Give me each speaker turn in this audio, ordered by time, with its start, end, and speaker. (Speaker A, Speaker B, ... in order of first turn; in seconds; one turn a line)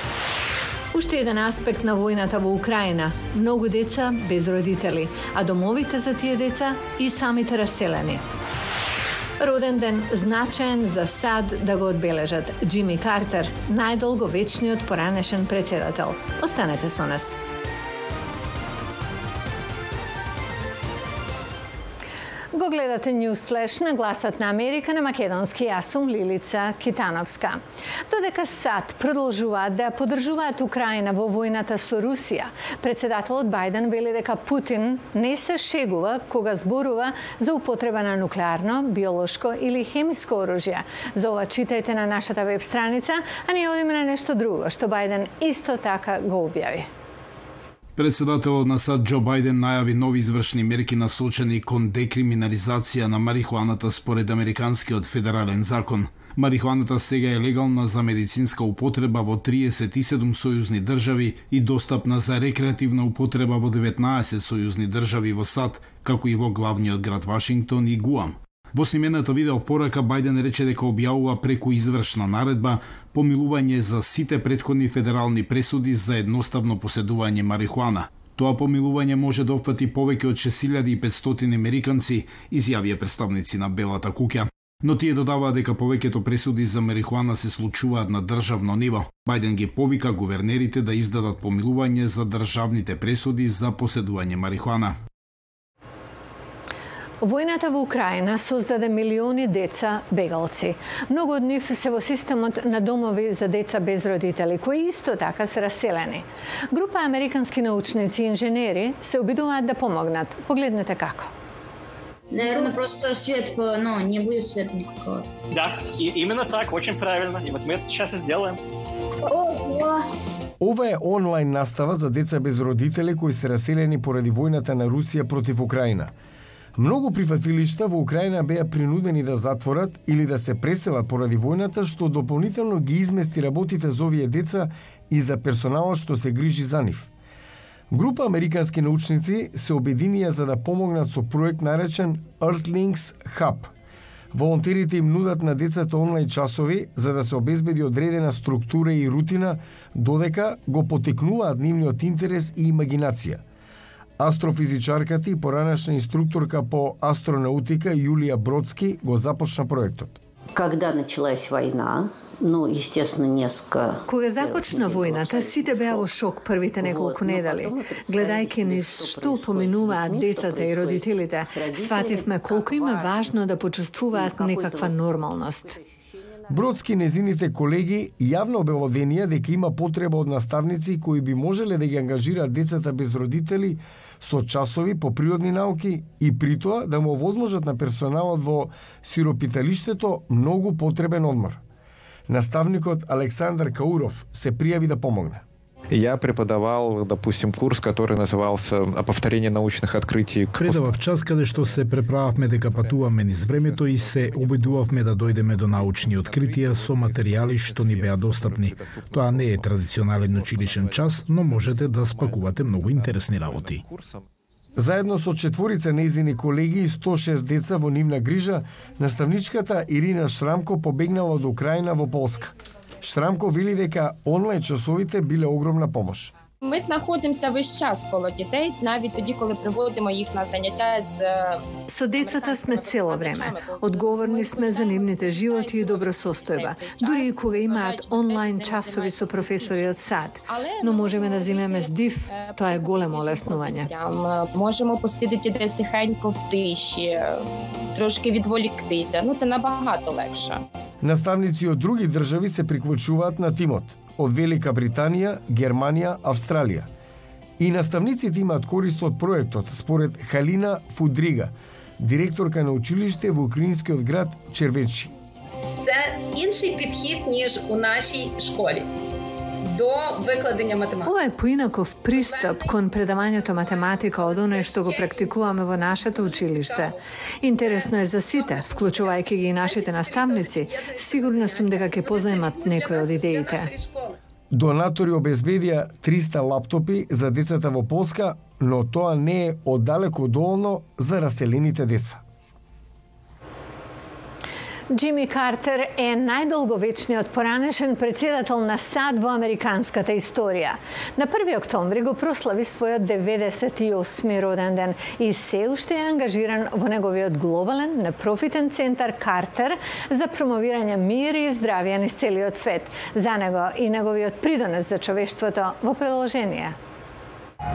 Speaker A: 0.9-8.2
Speaker A: 9.4-17.4
Speaker A: 22.5-46.9
Speaker B: 48.0-95.0
Speaker A: 97.2-111.3
Speaker C: 112.3-115.3
Speaker D: 115.5-118.6
Speaker C: 119.5-119.9
Speaker E: 120.6-126.1
Speaker E: 126.8-137.1
Speaker E: 137.9-143.7
Speaker E: 144.3-153.4
Speaker E: 154.2-160.2
Speaker F: 160.6-166.0
Speaker A: 164.1-175.8
Speaker F: 166.8-173.1
Speaker F: 174.1-175.0
Speaker E: 176.5-191.6
Speaker E: 192.3-195.4
Speaker G: 195.9-214.3
Speaker B: 200.6-213.8
Speaker E: 214.8-226.3
Speaker H: 226.6-231.6
Speaker A: 231.9-243.9
Speaker H: 232.1-250.6
Speaker E: 251.0-256.9
Speaker E: 257.6-265.1
Speaker I: 265.8-268.9
Speaker I: 269.7-271.1
Speaker A: 271.0-283.7
Speaker I: 272.1-277.0
Speaker I: 277.6-284.2
Speaker E: 284.5-292.2
Speaker A: 294.9-316.7